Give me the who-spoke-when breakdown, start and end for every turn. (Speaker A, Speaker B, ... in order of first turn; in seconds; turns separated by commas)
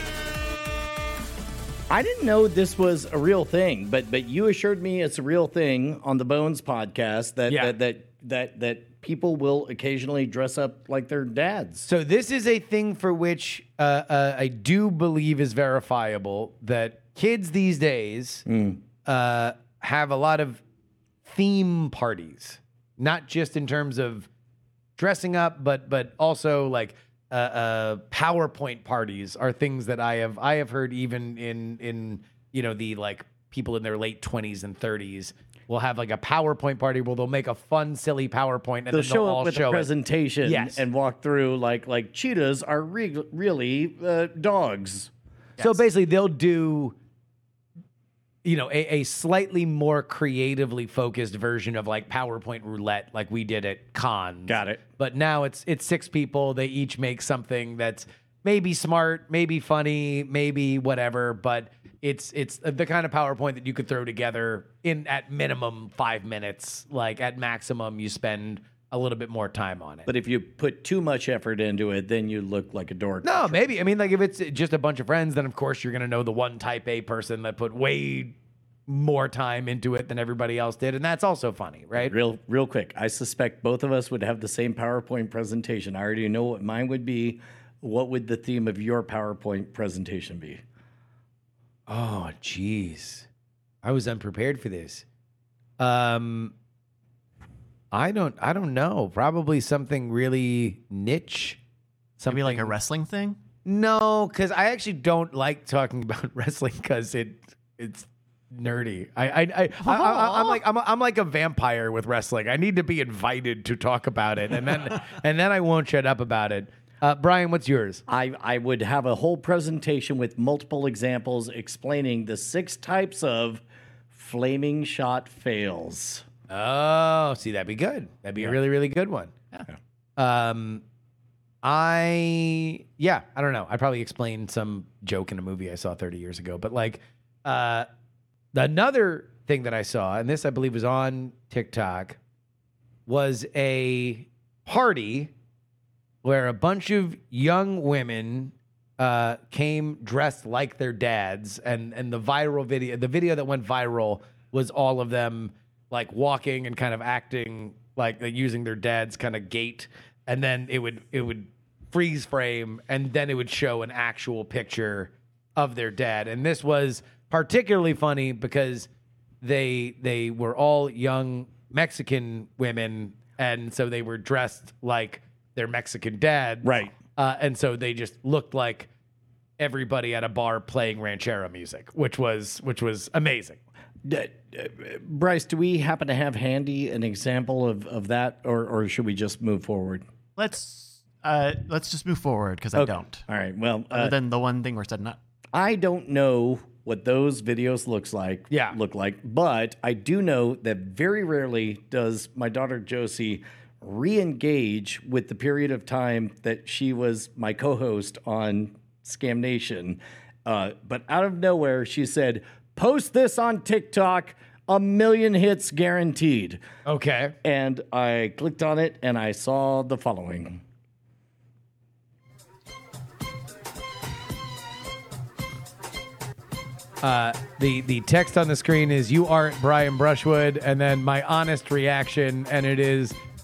Speaker A: 1.9-11.9, Speaker B: 7.5-7.8, Speaker B: 11.9-18.4, Speaker A: 18.5-18.8, Speaker B: 19.1-20.6, Speaker B: 21.2-24.3, Speaker B: 25.0-39.9, Speaker A: 38.9-45.1, Speaker B: 40.4-40.9, Speaker B: 45.6-47.0, Speaker B: 48.4-70.1, Speaker A: 54.5-54.8, Speaker A: 70.1-73.7, Speaker B: 73.2-78.3, Speaker B: 78.9-82.1, Speaker A: 82.0-90.6, Speaker B: 91.9-93.3, Speaker B: 93.8-95.0, Speaker B: 95.8-96.5, Speaker B: 97.9-101.6, Speaker B: 102.2-102.7, Speaker C: 102.3-103.4, Speaker B: 103.7-118.0, Speaker C: 109.8-110.6, Speaker A: 118.1-126.2, Speaker B: 126.5-129.3, Speaker B: 130.2-130.8, Speaker B: 131.6-137.9, Speaker B: 138.5-142.2, Speaker B: 143.1-145.3, Speaker B: 146.2-168.9, Speaker B: 169.4-178.9, Speaker A: 176.6-176.9, Speaker B: 179.6-183.6, Speaker A: 184.1-190.1, Speaker C: 190.4-193.2, Speaker A: 192.7-194.1, Speaker C: 193.9-195.2, Speaker A: 195.5-216.6, Speaker B: 198.5-198.8, Speaker B: 216.9-217.3, Speaker A: 217.4-220.6, Speaker B: 227.0-233.2